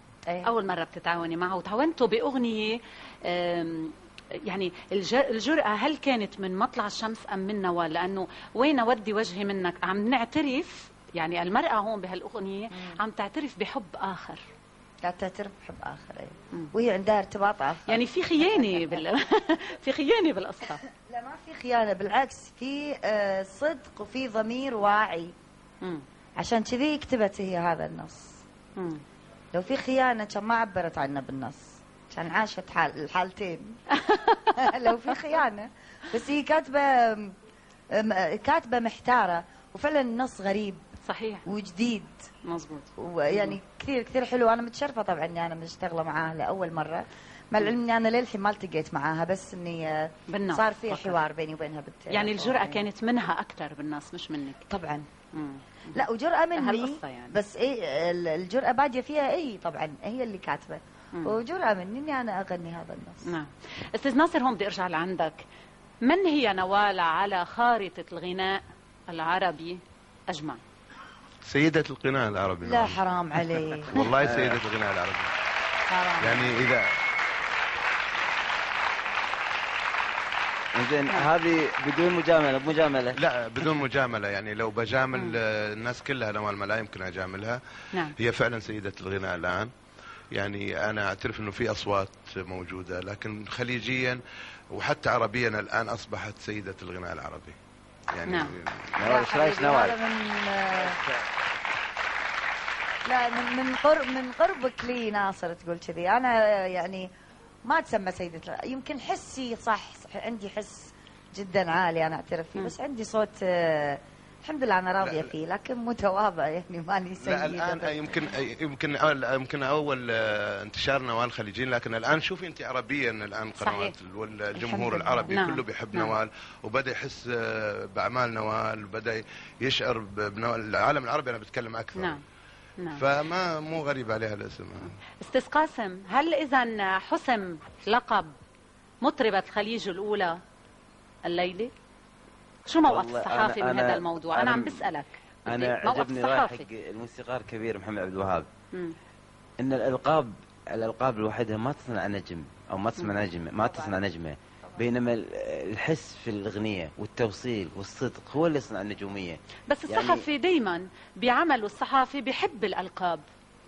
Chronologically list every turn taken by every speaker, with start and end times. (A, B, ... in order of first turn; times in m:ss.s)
0:00.4-0:14.4 A
0:12.7-0:13.0 B
0:15.0-0:19.0 B
0:17.9-0:20.8 A
0:20.8-0:25.3 B
0:26.4-0:28.4 B
0:28.8-0:29.0 A
0:29.5-0:33.8 B
0:34.1-0:34.4 A
0:34.4-0:37.3 B
0:37.9-0:40.8 B
0:41.0-0:41.4 A
0:41.5-0:42.3 B
0:42.4-0:43.6 A
0:43.0-0:52.8 B
0:50.3-0:51.2 A
0:52.1-0:54.6 A
0:54.7-0:55.1 B
0:55.3-0:56.0 A
0:55.9-1:03.3 B
0:56.5-0:57.3 A
1:03.2-1:05.4 A
1:06.0-1:10.6 A
1:11.4-1:13.0 C
1:12.6-1:14.0 B
1:13.9-1:15.3 C
1:14.2-1:14.6 D
1:15.9-1:16.5 A
1:16.2-1:16.9 C
1:20.7-1:23.2 D
1:23.2-1:29.7 C
1:30.3-1:34.2 C
1:34.7-1:37.6 C
1:38.1-1:39.0 C
1:38.3-1:38.5 A
1:39.0-1:40.0 D
1:39.0-1:41.0 B
1:43.0-1:47.1 B
1:47.6-1:58.3 B
1:55.0-1:55.3 C
1:57.2-2:12.2 C
2:03.6-2:03.9 A
2:04.6-2:05.3 B
2:05.3-2:06.1 A
2:12.9-2:15.0 C
2:15.2-2:18.3 A
2:19.0-2:20.4 A
2:21.2-2:21.7 A
2:22.6-2:26.7 A
2:22.8-2:24.9 D
2:25.5-2:28.5 D
2:29.6-2:40.3 D
2:33.6-2:34.0 B
2:39.7-2:43.2 A